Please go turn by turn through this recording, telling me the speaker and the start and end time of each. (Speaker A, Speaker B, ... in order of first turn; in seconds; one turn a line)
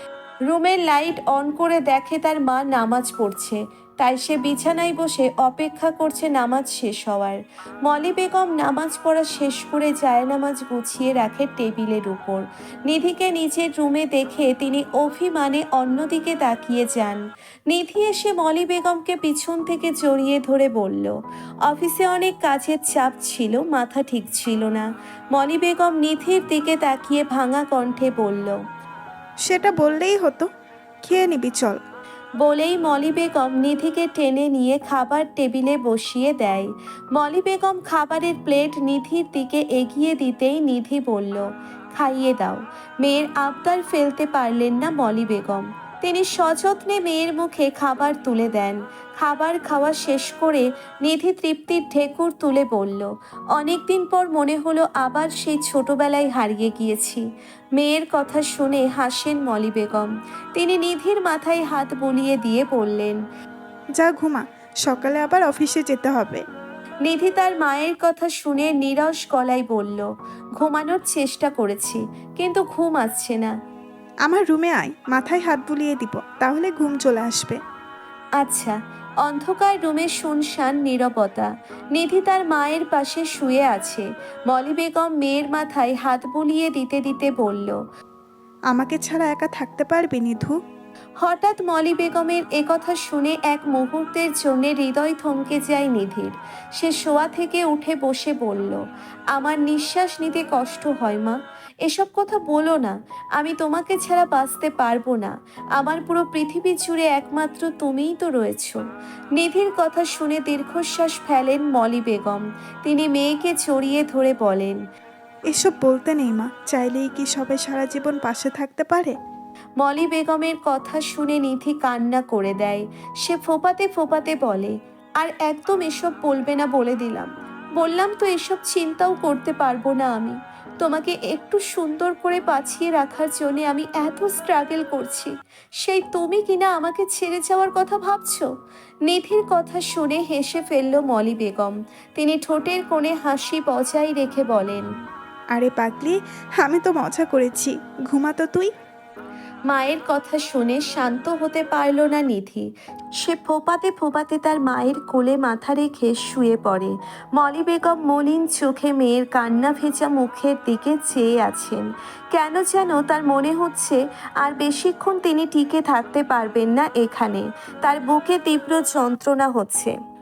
Speaker A: 0.5-21.1
Speaker A: 21.7-28.6
Speaker B: 29.5-30.5
Speaker B: 31.1-31.8
Speaker A: 32.4-57.2
Speaker A: 57.8-63.2
Speaker B: 64.0-66.4
Speaker A: 67.0-73.5
Speaker B: 74.3-77.6
Speaker A: 78.4-87.8
Speaker B: 88.8-90.5
Speaker A: 91.2-98.8
Speaker A: 99.3-108.8
Speaker A: 109.3-114.8
Speaker B: 115.5-119.1
Speaker A: 119.8-138.5
Speaker A: 139.1-144.8
Speaker B: 145.6-148.7
Speaker A: 149.7-152.7
Speaker A: 153.2-169.9